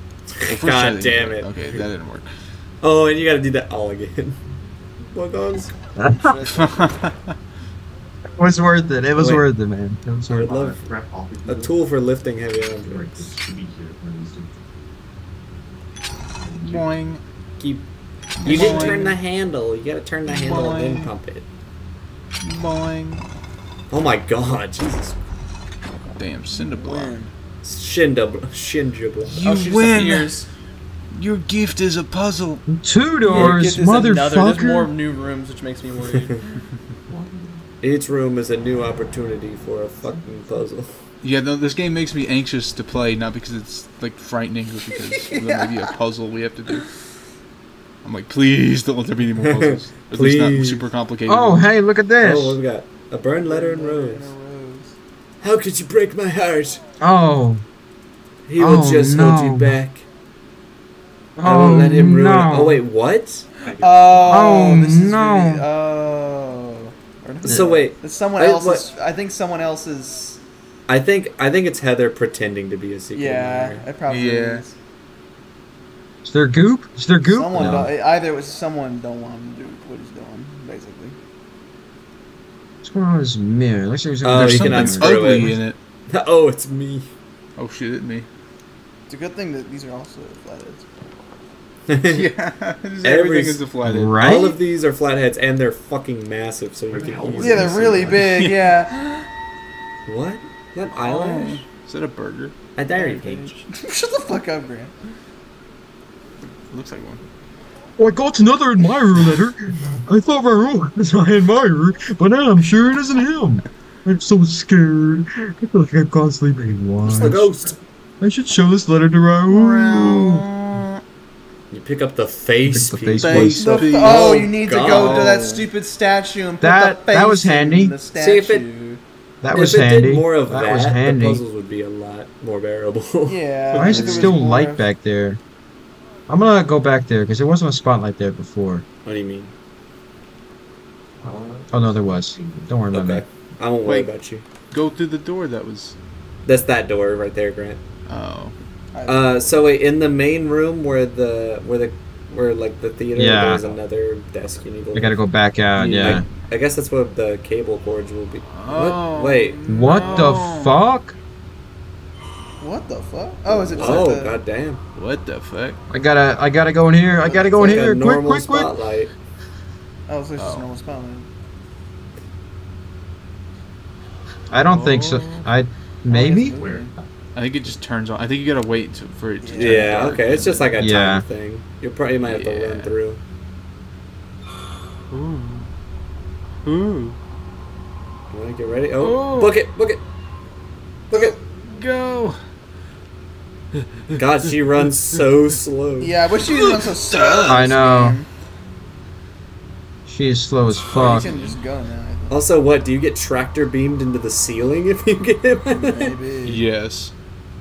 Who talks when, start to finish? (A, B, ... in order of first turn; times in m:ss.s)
0:00.4-0:01.9 A
0:00.4-0:02.3 B
0:02.8-0:04.4 A
0:05.1-0:05.7 A
0:06.0-0:06.3 C
0:06.1-0:07.0 D
0:06.5-0:07.3 B
0:08.4-0:10.7 C
0:09.2-0:09.4 A
0:10.3-0:13.4 A
0:16.5-0:17.2 B
0:17.6-0:17.9 A
0:18.4-0:19.1 B
0:18.4-0:19.2 D
0:18.4-0:21.4 A
0:20.3-0:21.0 B
0:20.5-0:21.1 D
0:22.4-0:23.2 B
0:23.9-0:25.2 A
0:26.2-0:27.2 B
0:26.7-0:27.3 D
0:27.6-0:29.4 A
0:29.2-0:30.3 B
0:29.4-0:30.5 D
0:31.1-0:32.7 B
0:32.7-0:34.9 C
0:33.2-0:36.4 D
0:37.8-0:41.0 A
0:41.2-0:46.9 B
0:45.1-0:45.9 D
0:48.0-0:51.7 B
0:49.4-0:50.8 A
0:51.3-0:52.6 C
0:52.2-0:54.3 A
0:53.4-0:55.0 D
0:55.4-0:56.8 A
0:57.0-0:57.6 C
0:58.5-1:00.0 A
0:58.6-0:59.7 C
1:01.4-1:02.8 C
1:01.4-1:03.5 A
1:03.8-1:10.4 D
1:04.2-1:05.6 C
1:07.4-1:08.9 A
1:10.9-1:13.8 A
1:13.1-1:14.8 D
1:14.1-1:14.6 B
1:16.2-1:17.9 C
1:17.2-1:21.2 D
1:17.6-1:17.9 A
1:22.8-1:25.2 C
1:24.2-1:27.1 A
1:24.3-1:25.8 B
1:27.6-1:28.3 B
1:29.1-1:30.9 D
1:31.9-1:32.3 A
1:32.1-1:34.5 B
1:33.0-1:33.6 A
1:33.8-1:34.6 C
1:34.2-1:38.1 A
1:37.4-1:39.3 D
1:37.4-1:38.5 B
1:40.1-1:41.6 A
1:41.0-1:42.6 B
1:42.8-1:43.6 A
1:42.9-1:44.9 D
1:46.7-1:47.2 B
1:48.0-1:57.5 C
1:57.0-1:57.8 A
1:58.2-2:00.5 C
1:59.5-2:01.0 B
2:01.7-2:05.4 A
2:02.6-2:03.6 C
2:03.2-2:05.6 B
2:03.6-2:09.0 D
2:06.6-2:08.0 C
2:08.1-2:08.7 A
2:09.4-2:11.4 C
2:09.5-2:14.4 A
2:13.3-2:14.8 D
2:13.7-2:15.4 C
2:16.3-2:18.8 C
2:19.0-2:19.5 A
2:21.7-2:23.2 C
2:22.9-2:24.4 A
2:23.8-2:24.1 B
2:24.7-2:26.0 B
2:26.4-2:27.8 A
2:28.1-2:28.5 B
2:28.9-2:29.4 D
2:29.1-2:35.2 A
2:33.2-2:33.6 C
2:34.9-2:36.2 C
2:35.8-2:40.3 A
2:38.5-2:40.8 B
2:39.7-2:41.2 C
2:42.6-2:44.4 D
2:43.5-2:44.8 A
2:45.0-2:45.8 B
2:45.9-2:48.7 C
2:47.4-2:49.1 A
2:50.1-2:51.3 D
2:50.4-2:50.7 B
2:54.5-2:56.6 C
2:54.6-2:55.5 B
2:56.1-3:00.7 B
2:59.4-3:00.0 D
2:59.6-3:03.2 A
3:00.8-3:01.2 C
3:02.2-3:02.9 B
3:05.1-3:05.7 B
3:06.6-3:07.2 B
3:08.3-3:10.0 A
3:09.0-3:09.6 B
3:11.1-3:11.4 A
3:11.1-3:12.4 B
3:14.1-3:16.1 A
3:16.0-3:18.3 D
3:16.4-3:17.6 B
3:17.5-3:18.2 C
3:20.1-3:21.3 C
3:20.9-3:21.5 B
3:20.9-3:22.4 D
3:22.3-3:26.1 A
3:25.7-3:26.6 D
3:26.5-3:27.1 B